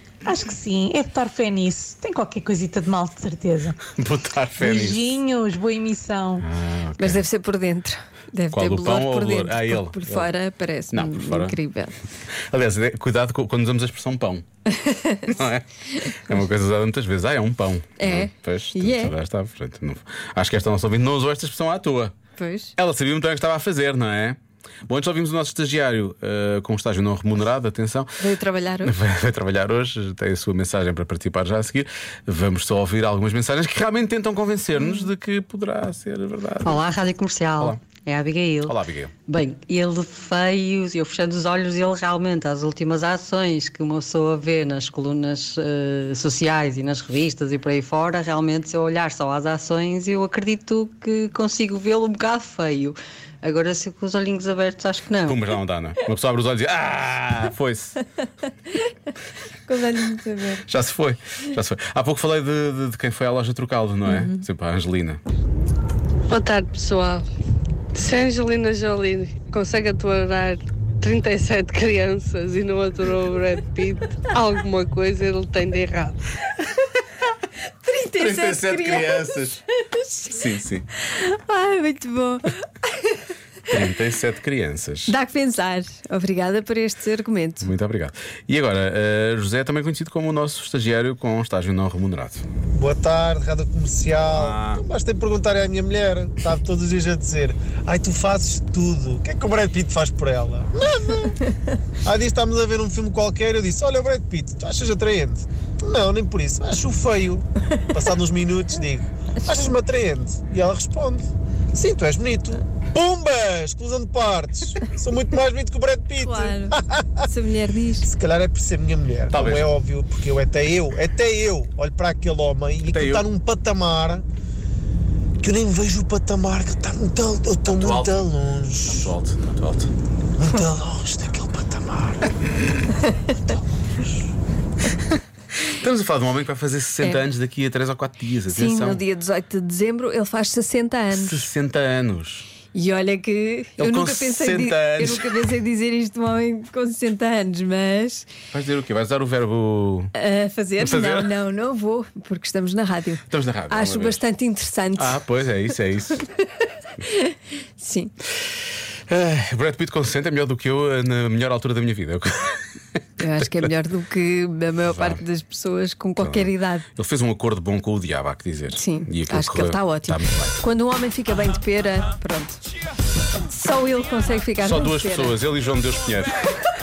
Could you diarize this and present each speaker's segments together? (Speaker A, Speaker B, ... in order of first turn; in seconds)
Speaker A: 0.3-3.9, 4.6-6.5
Speaker B: 4.0-5.0, 6.5-7.3, 8.5-10.3, 10.9-11.6, 12.5-14.4, 15.3-22.1, 22.8-28.2, 28.8-36.8, 38.6-39.1, 55.3-58.0, 60.7-65.2, 78.2-79.6, 80.3-80.8, 83.7-85.1, 87.7-92.4, 94.2-94.8, 119.3-119.7, 122.9-123.2, 127.7-128.2, 128.9-129.9, 135.8-139.0, 141.1-142.4, 143.8-145.2, 148.5-150.1, 150.8-151.3, 153.3-154.2, 155.0-156.2, 159.1-162.6, 164.9-165.2, 166.2-170.6, 174.6-176.4
Speaker C: 7.0-12.0, 14.8-15.4, 18.0-19.1, 22.4-22.7, 28.2-28.9, 59.7-60.6, 77.8-79.4, 79.9-80.4, 81.0-82.5, 85.1-87.7, 116.2-118.1, 138.5-141.5, 142.7-148.3, 150.2-155.2, 157.0-158.1, 163.2-166.8, 168.7-172.6, 173.5-175.4
Speaker D: 36.6-55.5
Speaker E: 66.3-67.3, 67.9-76.2
Speaker F: 92.8-101.4, 102.0-117.3, 118.0-124.2, 125.4-129.1, 130.4-132.3